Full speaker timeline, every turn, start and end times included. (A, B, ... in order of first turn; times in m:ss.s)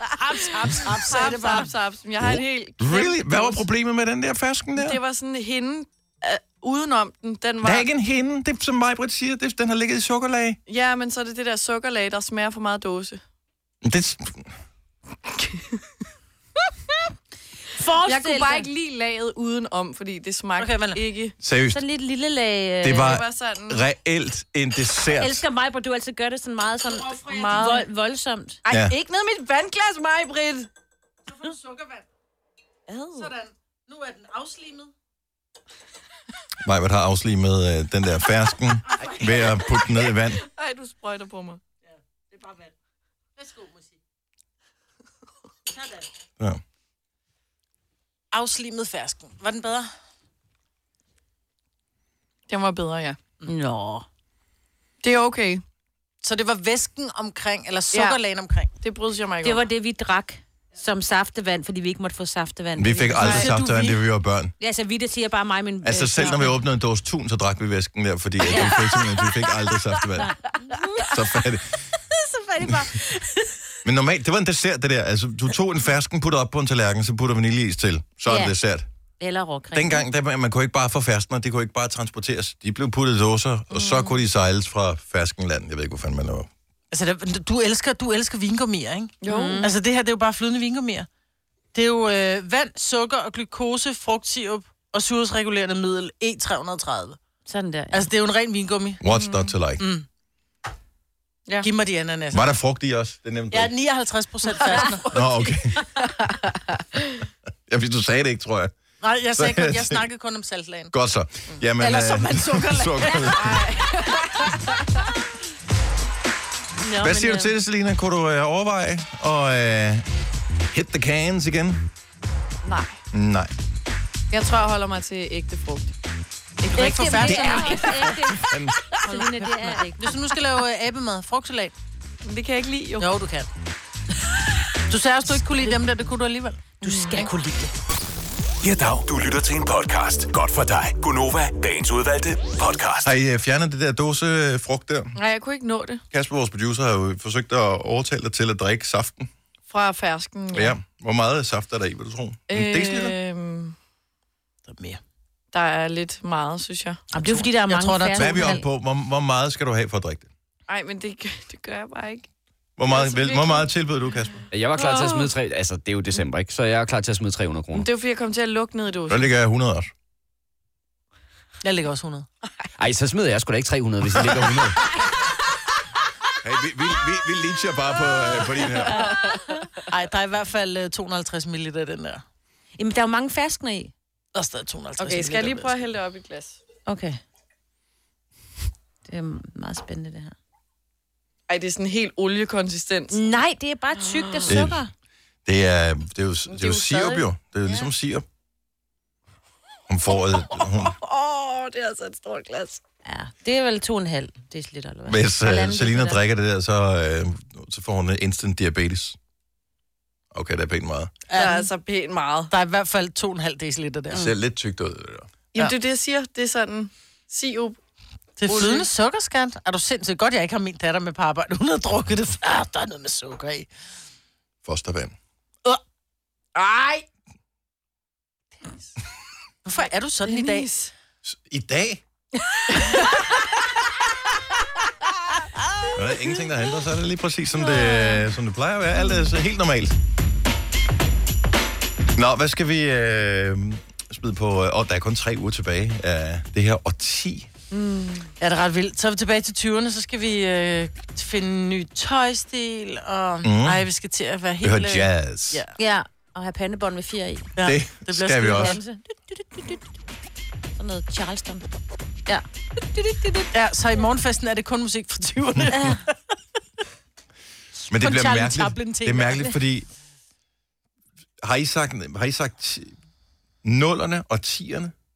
0:00.2-0:01.3 A
0:00.5-0:01.7 B
0:00.8-0:03.6 C
0:02.2-0:05.0 D
0:04.8-0:07.9 C
0:07.6-0:10.6 D
0:10.7-0:13.2 C
0:13.8-0:14.5 D
0:17.7-0:18.7 A
0:18.0-0:21.3 C
0:20.6-0:21.0 B
0:21.4-0:21.8 D
0:21.7-0:23.2 A
0:22.8-0:25.4 D
0:22.9-0:23.8 C
0:25.2-0:28.6 A
0:26.9-0:27.8 B
0:27.3-0:27.8 C
0:28.6-0:30.7 C
0:28.7-0:28.9 D
0:31.3-0:32.0 B
0:32.9-0:33.3 C
0:33.1-0:34.9 B
0:36.6-0:40.4 D
0:38.9-0:39.6 B
0:39.7-0:41.6 C
0:41.8-0:42.7 B
0:43.4-0:44.0 B
0:45.7-0:46.1 B
0:48.3-0:49.9 B
0:52.5-0:53.2 C
0:53.4-0:54.0 A
0:55.0-0:55.6 C
0:56.2-0:58.7 B
0:57.9-0:58.2 C
0:58.8-0:59.6 C
0:59.4-1:03.5 A
1:02.8-1:04.5 D
1:03.2-1:03.5 C
1:03.2-1:04.0 B
1:04.6-1:06.4 A
1:05.8-1:10.3 D
1:08.5-1:09.0 A
1:10.2-1:11.2 A
1:11.1-1:11.8 D
1:12.1-1:13.5 A
1:13.8-1:18.9 D
1:18.3-1:18.5 A
1:19.2-1:20.0 A
1:19.7-1:26.5 D
1:23.7-1:24.1 C
1:26.9-1:31.1 B
1:29.2-1:29.6 C
1:29.2-1:29.7 A
1:31.7-1:37.2 B
1:37.5-1:38.1 A
1:37.9-1:39.0 B
1:39.0-1:39.8 D
1:39.1-1:39.5 C
1:39.8-1:40.0 B
1:41.6-1:42.5 B
1:42.3-1:43.7 D
1:43.5-1:45.1 B
1:44.6-1:45.2 C
1:45.1-1:45.8 D
1:45.9-1:47.0 C
1:47.7-1:48.7 D
1:49.0-1:50.9 B
1:49.3-1:50.0 D
1:50.9-1:53.6 D
1:51.8-1:53.6 B
1:53.1-1:55.1 C
1:56.8-1:57.5 A
1:57.0-2:00.1 D
2:00.7-2:01.9 D
2:02.6-2:03.0 C
2:03.1-2:03.5 D
2:04.3-2:05.9 C
2:06.6-2:07.7 C
2:06.7-2:08.2 B
2:06.7-2:10.2 A
2:08.3-2:08.8 D
2:09.0-2:11.7 B
2:12.2-2:13.1 C
2:13.0-2:13.5 B
2:14.9-2:17.3 B
2:16.8-2:17.7 A
2:16.8-2:17.2 C
2:18.6-2:23.1 E
2:23.0-2:25.2 D
2:25.2-2:26.0 C
2:26.1-2:29.3 D
2:29.7-2:30.8 C
2:30.5-2:33.2 D
2:32.5-2:33.7 C
2:34.7-2:35.0 B
2:35.5-2:37.0 C
2:37.1-2:38.6 B
2:37.1-2:38.6 A
2:38.1-2:40.3 D
2:40.7-2:42.2 C
2:42.8-2:44.4 D
2:42.8-2:43.7 C
2:44.5-2:47.9 F
2:44.7-2:45.3 C
2:47.7-2:49.3 C
2:49.1-2:49.9 D
2:51.6-2:52.3 B
2:52.8-2:54.7 F
2:56.4-2:59.1 D
2:58.7-2:59.4 C
2:59.9-3:02.2 B
3:02.8-3:03.9 A
3:04.3-3:05.8 B
3:05.0-3:06.6 C
3:06.9-3:07.2 A
3:09.1-3:10.3 A
3:11.5-3:13.2 C
3:13.1-3:14.9 A
3:14.0-3:14.6 C
3:14.5-3:14.8 D
3:15.4-3:18.2 D
3:16.5-3:17.2 C
3:19.9-3:21.0 D
3:20.2-3:22.8 C
3:23.0-3:26.2 A
3:25.1-3:29.2 D
3:30.3-3:31.1 D
3:31.3-3:31.7 B
3:31.3-3:32.5 C
3:32.5-3:34.3 B
3:34.1-3:35.3 D
3:35.5-3:37.8 C
3:38.4-3:43.7 B
3:38.5-3:38.9 C
3:44.6-3:45.1 D
3:46.6-3:47.0 C
3:49.6-3:50.7 B
3:50.2-3:50.9 C
3:51.2-3:52.0 D
3:52.4-3:53.4 C
3:55.9-4:00.0 D
3:57.6-3:58.2 C
4:02.1-4:07.5 D
4:07.7-4:08.3 C
4:08.4-4:15.7 B
4:13.4-4:13.9 D
4:14.6-4:15.6 D
4:15.8-4:17.5 A
4:17.6-4:18.8 B
4:17.6-4:18.8 D
4:18.4-4:19.8 A
4:20.8-4:21.6 A
4:22.3-4:23.5 A
4:23.5-4:26.1 B
4:25.7-4:26.0 A
4:27.9-4:29.6 B
4:27.9-4:29.9 D
4:31.4-4:32.9 D
4:33.6-4:34.9 D